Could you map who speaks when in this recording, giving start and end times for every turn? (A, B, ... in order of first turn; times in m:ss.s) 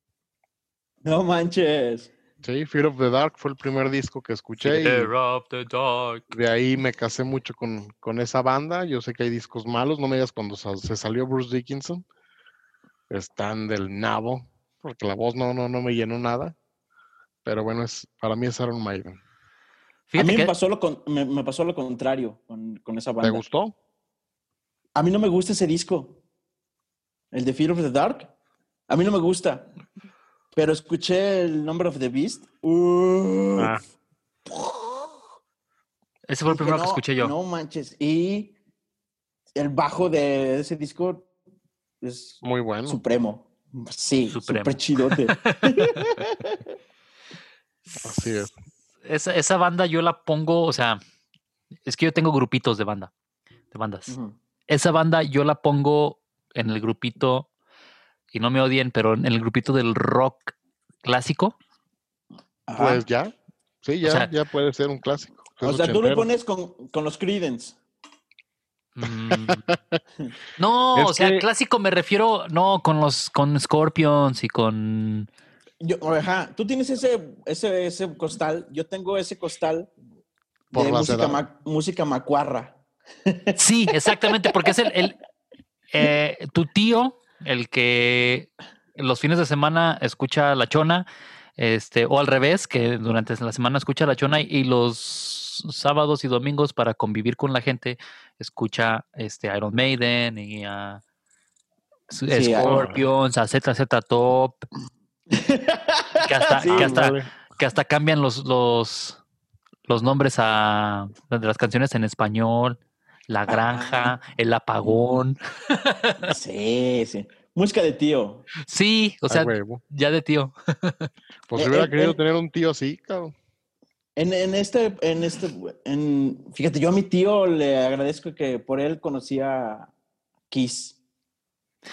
0:01.0-0:02.1 A
0:02.4-0:05.1 B
0:04.6-0:06.2 C
0:06.3-0:12.0 B
0:13.1-0:16.6 B
0:17.4-0:19.2 B
0:20.1-0:20.5 C
0:20.2-0:23.4 A
0:23.2-0:23.7 B
0:25.0-0:26.2 A
0:27.3-0:28.3 A
0:28.9-0:29.7 A
0:30.5-0:33.8 A
0:33.6-0:33.8 B
0:34.5-0:35.1 A
0:36.3-0:37.3 C
0:36.5-0:38.6 A
0:39.6-0:41.3 A
0:42.0-0:46.6 A
0:42.4-0:43.0 B
0:44.3-0:46.1 C
0:47.9-0:48.5 C
0:48.0-0:48.5 B
0:49.0-0:51.0 C
0:51.9-0:53.1 C
0:53.7-0:54.1 C
0:54.1-0:54.4 A
0:54.7-0:57.5 C
0:58.3-1:01.6 C
1:02.7-1:03.0 A
1:02.7-1:06.3 B
1:04.0-1:04.3 C
1:05.6-1:07.8 A
1:09.0-1:09.6 C
1:09.3-1:10.0 B
1:10.6-1:15.3 C
1:11.0-1:11.4 B
1:15.8-1:19.9 A
1:20.7-1:21.4 B
1:20.7-1:24.2 A
1:23.6-1:25.2 C
1:25.9-1:31.1 C
1:31.6-1:41.0 C
1:42.1-1:44.6 C
1:42.3-1:42.9 A
1:42.6-1:43.0 B
1:45.3-1:47.0 A
1:46.2-1:49.2 C
1:46.7-1:47.3 B
1:49.9-1:56.3 C
1:53.5-1:54.2 A
1:56.2-1:58.5 A
1:58.6-2:01.1 C
1:59.3-1:59.8 B
2:01.5-2:03.3 B
2:01.6-2:02.2 A
2:04.2-2:09.9 A
2:10.5-2:11.0 A